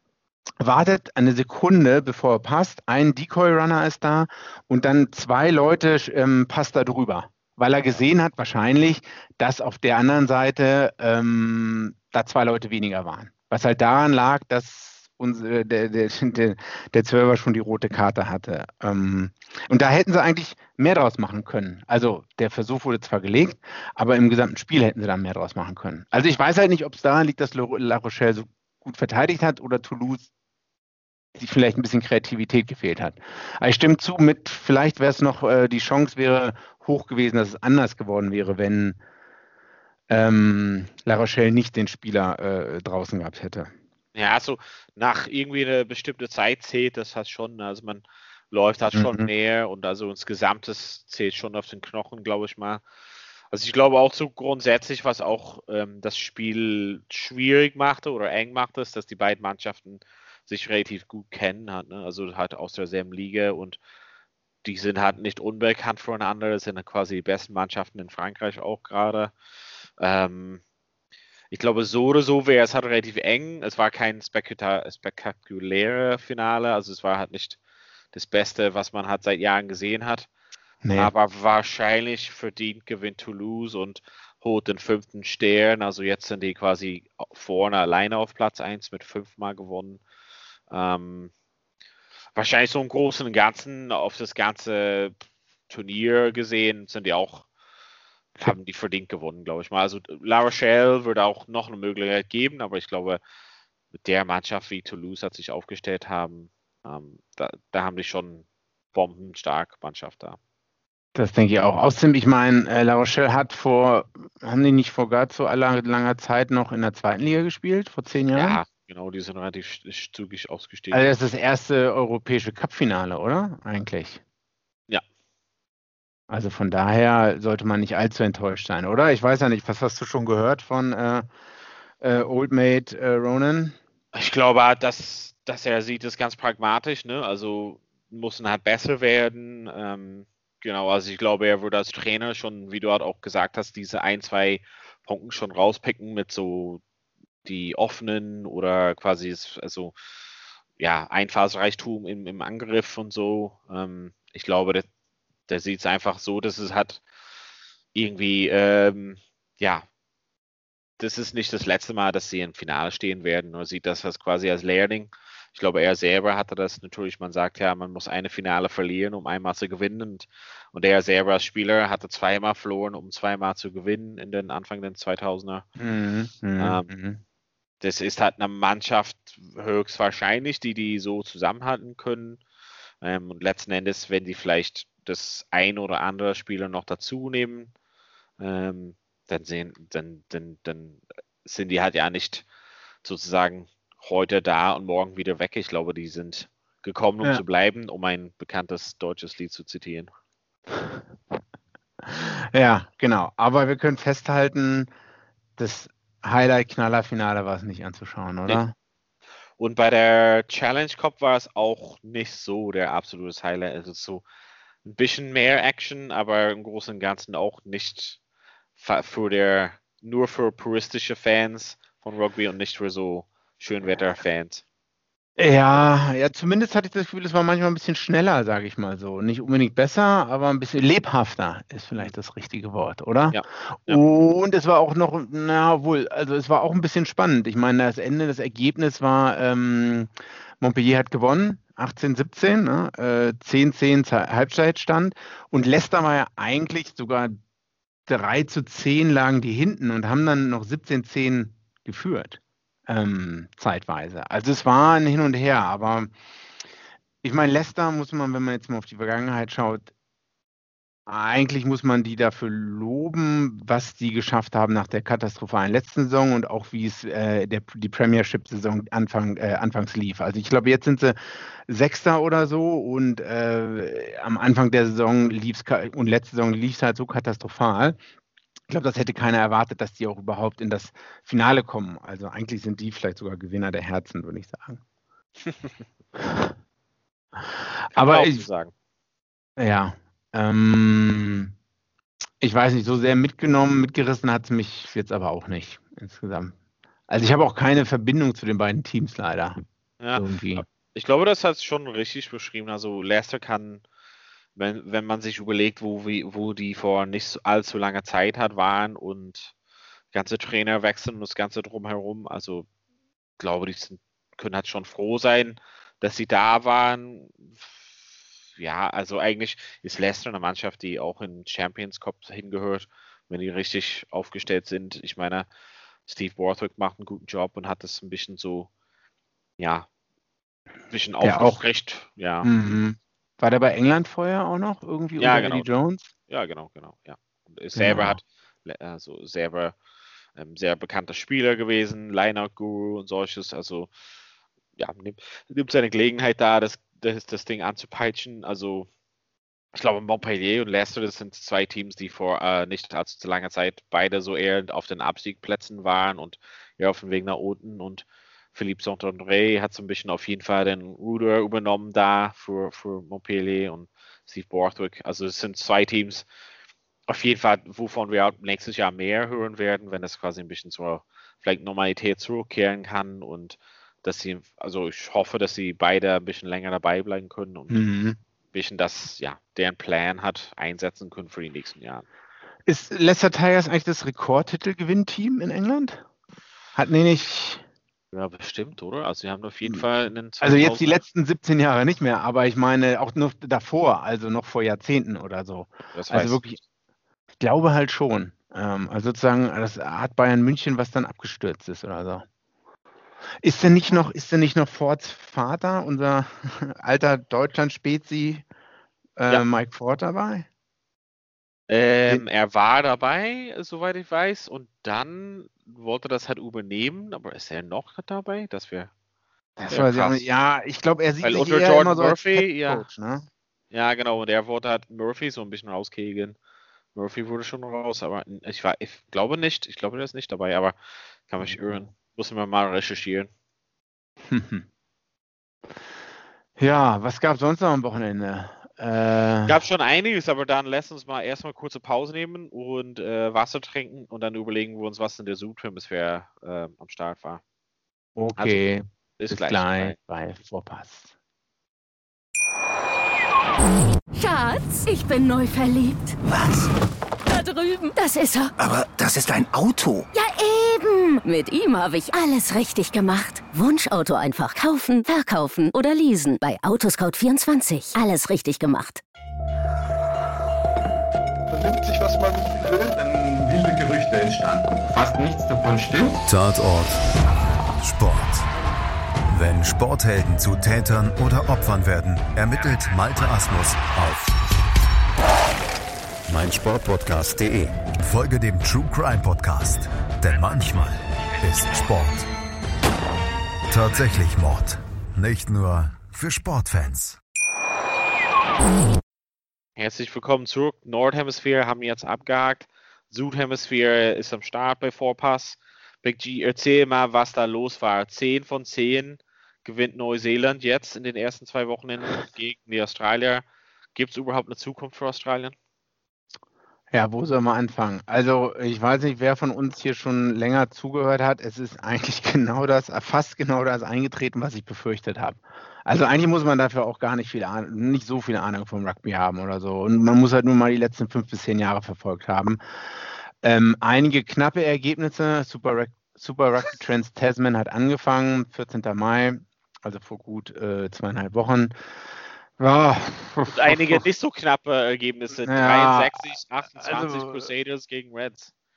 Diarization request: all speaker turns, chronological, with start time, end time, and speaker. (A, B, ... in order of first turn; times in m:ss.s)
0:00.6-0:30.3 A
0:31.4-0:39.0 A
0:40.1-0:43.7 A
0:44.2-0:52.8 B
0:48.9-0:49.3 A
0:53.5-1:03.8 B
1:04.6-1:09.3 B
1:10.0-1:10.6 B
1:11.5-1:17.6 B
1:18.1-1:20.3 B
1:20.8-1:21.1 A
1:21.0-1:30.0 B
1:30.7-1:31.3 B
1:32.4-1:35.2 B
1:35.7-1:37.5 B
1:38.4-1:43.2 B
1:43.9-1:50.4 B
1:51.2-1:58.6 A
1:58.3-2:01.0 B
2:00.9-2:04.2 A
2:06.3-2:11.3 A
2:12.0-2:13.8 A
2:14.1-2:26.8 B
2:27.4-2:29.9 B
2:30.8-2:34.9 B
2:35.5-2:37.0 B
2:37.9-2:39.8 B
2:41.0-2:55.7 B
2:55.8-2:57.2 A
2:56.6-2:56.9 B
2:57.8-3:02.4 B
3:03.0-3:07.7 B
3:08.4-3:12.4 B
3:13.0-3:20.1 B
3:20.7-3:21.0 A
3:22.0-3:24.9 A
3:25.6-3:28.7 A
3:29.6-3:34.2 B
3:34.8-3:38.2 B
3:38.8-3:44.6 B
3:45.4-4:07.4 A
3:53.3-3:54.0 B
4:08.1-4:16.1 A
4:17.2-4:19.9 A
4:21.1-4:38.0 A
4:38.7-4:44.8 A
4:45.5-4:45.7 B
4:46.2-4:46.5 A
4:47.4-4:48.4 A
4:47.9-4:48.7 B
4:49.6-4:51.5 A
4:52.4-4:56.6 A
4:57.1-4:59.6 A
5:00.0-5:03.8 B
5:00.1-5:00.6 A
5:04.6-5:09.5 B
5:10.1-5:12.7 B
5:13.4-5:17.7 B
5:18.6-5:25.5 B
5:26.1-5:28.7 B
5:29.6-5:29.9 B
5:30.9-5:32.5 B
5:31.2-5:31.6 A
5:32.4-5:36.1 A
5:35.2-5:35.7 B
5:36.3-5:39.8 B
5:37.8-5:38.2 A
5:40.4-5:43.9 B
5:44.8-5:48.9 B
5:49.8-6:06.2 B
6:07.1-6:17.8 B
6:17.7-6:18.2 A
6:18.5-6:22.0 B
6:22.7-6:26.0 A
6:26.7-6:27.6 A
6:28.1-6:31.0 B
6:30.4-6:36.6 A
6:36.0-6:36.4 B
6:37.4-6:42.3 A
6:43.4-6:48.4 A
6:49.2-6:50.5 A
6:51.7-6:58.9 B
6:59.6-7:03.3 A
6:59.7-7:00.3 B
7:01.2-7:02.8 B
7:03.7-7:06.4 B
7:07.0-7:10.8 B
7:11.3-7:13.3 B
7:11.4-7:11.8 A
7:14.3-7:14.6 A
7:16.6-7:19.6 A
7:19.5-7:27.4 B
7:28.2-7:31.1 A
7:28.4-7:28.6 B
7:29.2-7:30.0 B
7:34.2-7:36.2 C
7:36.3-7:36.7 D
7:37.3-7:38.5 C
7:38.6-7:40.1 D
7:40.1-7:49.0 C
7:51.5-7:56.2 E
7:56.3-7:57.0 F
7:57.8-7:58.4 F
7:59.3-8:04.4 F
8:06.3-8:12.3 F
8:13.7-8:17.2 F
8:19.8-8:35.6 B
8:36.9-8:52.6 A
8:53.4-9:01.8 A
9:02.6-9:04.0 A
9:03.5-9:08.5 B
9:05.4-9:06.2 A
9:06.8-9:07.5 A